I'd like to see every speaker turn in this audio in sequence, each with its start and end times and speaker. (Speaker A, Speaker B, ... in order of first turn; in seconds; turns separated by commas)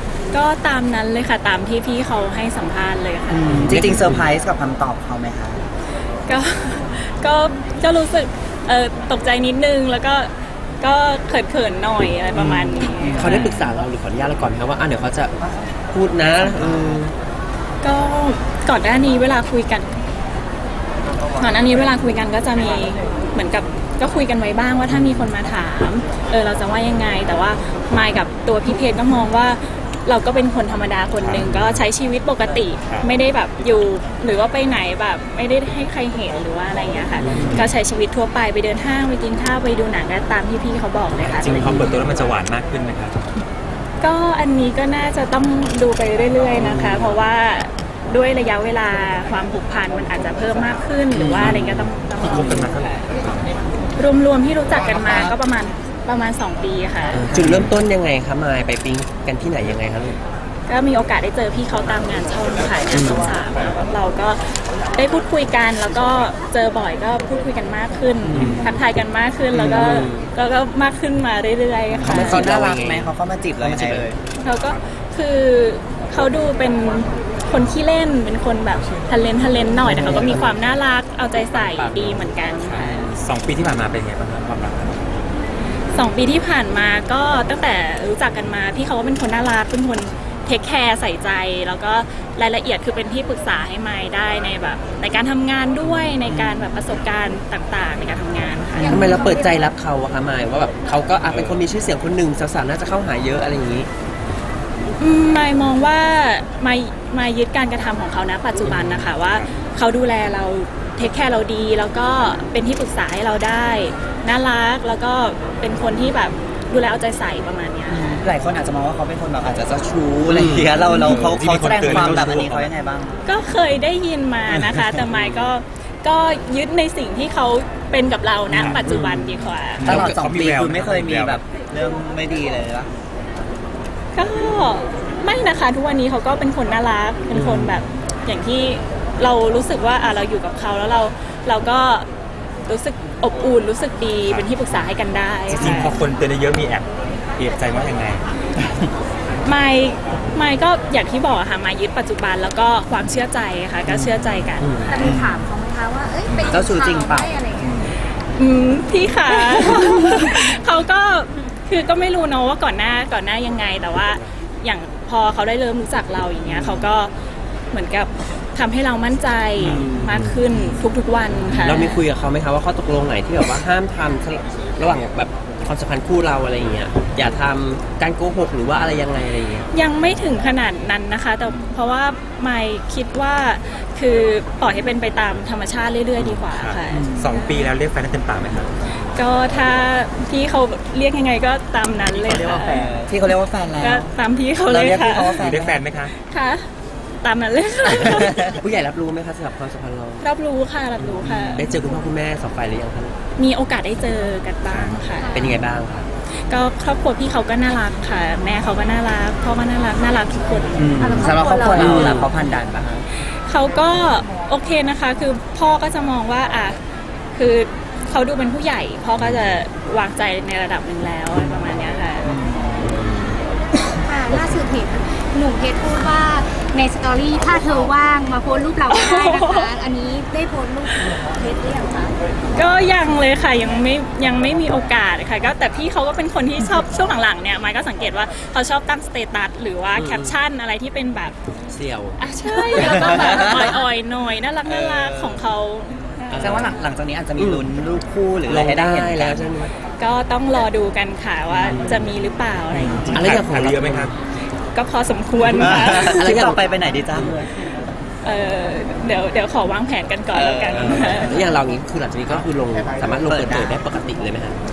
Speaker A: 0.3-3.5, Speaker B: 3.3-5.6, Speaker C: 3.5-4.2, Speaker A: 6.3-13.7, Speaker B: 12.3-13.4, Speaker C: 12.8-15.3, Speaker C: 15.9-17.1, Speaker A: 17.8-19.9, Speaker A: 21.4-41.7, Speaker D: 31.2-31.8, Speaker D: 37.4-37.7, Speaker D: 41.4-43.3, Speaker C: 41.5-41.9, Speaker A: 44.0-52.8, Speaker C: 46.6-47.2, Speaker B: 51.2-51.5, Speaker C: 51.2-51.9, Speaker D: 52.2-53.5, Speaker A: 54.0-57.2, Speaker C: 57.1-60.2, Speaker B: 57.2-57.7, Speaker A: 60.7-72.5, Speaker C: 62.9-63.3, Speaker B: 68.2-68.6, Speaker C: 68.3-68.6, Speaker C: 69.5-70.3, Speaker B: 71.9-74.2, Speaker C: 72.0-74.1, Speaker A: 74.4-83.1, Speaker C: 79.9-80.4, Speaker C: 81.6-83.1, Speaker D: 83.1-85.1, Speaker A: 85.9-98.9, Speaker C: 95.8-96.1, Speaker B: 96.2-96.8, Speaker B: 98.7-99.2, Speaker E: 98.8-99.6, Speaker C: 98.9-103.9, Speaker D: 101.3-101.6, Speaker A: 105.0-118.2, Speaker C: 108.6-109.1, Speaker B: 117.9-123.2, Speaker C: 120.3-120.8, Speaker D: 121.0-122.7, Speaker A: 123.2-129.9, Speaker C: 125.1-125.5, Speaker D: 128.5-128.8, Speaker C: 128.8-130.2, Speaker D: 129.8-131.4, Speaker B: 129.8-132.9, Speaker A: 134.1-142.1, Speaker C: 137.3-137.8, Speaker A: 142.7-146.0, Speaker D: 144.2-144.5, Speaker D: 145.5-148.2, Speaker A: 149.4-154.7, Speaker B: 153.9-154.2, Speaker C: 154.6-155.0, Speaker E: 154.8-157.8, Speaker B: 155.0-155.5, Speaker B: 156.3-157.9, Speaker A: 158.3-167.1, Speaker E: 159.8-160.2, Speaker A: 167.7-172.0, Speaker C: 169.6-170.3, Speaker C: 171.6-179.7, Speaker A: 179.7-187.7, Speaker D: 186.4-188.7, Speaker B: 186.9-187.3, Speaker A: 189.1-192.9, Speaker D: 192.3-192.7, Speaker B: 192.3-194.1, Speaker C: 192.8-193.1, Speaker A: 193.8-195.4, Speaker B: 194.6-195.8, Speaker D: 195.4-196.1, Speaker A: 196.2-196.7, Speaker A: 197.2-198.6, Speaker C: 198.3-200.2, Speaker A: 200.2-201.7, Speaker C: 201.0-203.2, Speaker A: 203.4-205.5, Speaker D: 204.7-205.0, Speaker E: 205.1-205.6, Speaker C: 205.3-206.1, Speaker A: 206.5-211.2, Speaker B: 210.8-213.1, Speaker E: 211.0-212.1, Speaker C: 211.8-212.3, Speaker A: 211.9-212.2, Speaker A: 213.3-216.8, Speaker A: 217.3-222.3, Speaker C: 219.2-219.6, Speaker B: 222.2-222.9, Speaker C: 222.8-223.3, Speaker E: 223.9-232.2, Speaker A: 228.9-229.7, Speaker A: 232.6-241.3, Speaker C: 239.9-240.4, Speaker C: 241.7-242.2, Speaker A: 242.2-246.8, Speaker B: 242.7-243.8, Speaker B: 244.7-245.4, Speaker C: 246.3-246.8, Speaker B: 246.4-249.5, Speaker C: 247.4-247.7, Speaker C: 248.5-249.7, Speaker A: 250.0-253.2, Speaker C: 251.7-252.1, Speaker B: 252.7-253.2, Speaker D: 253.1-254.2, Speaker C: 253.1-254.1, Speaker A: 254.7-256.3, Speaker B: 255.5-257.6, Speaker C: 255.9-256.6, Speaker A: 258.2-261.5, Speaker B: 260.3-261.1, Speaker C: 260.7-264.6, Speaker B: 263.1-263.8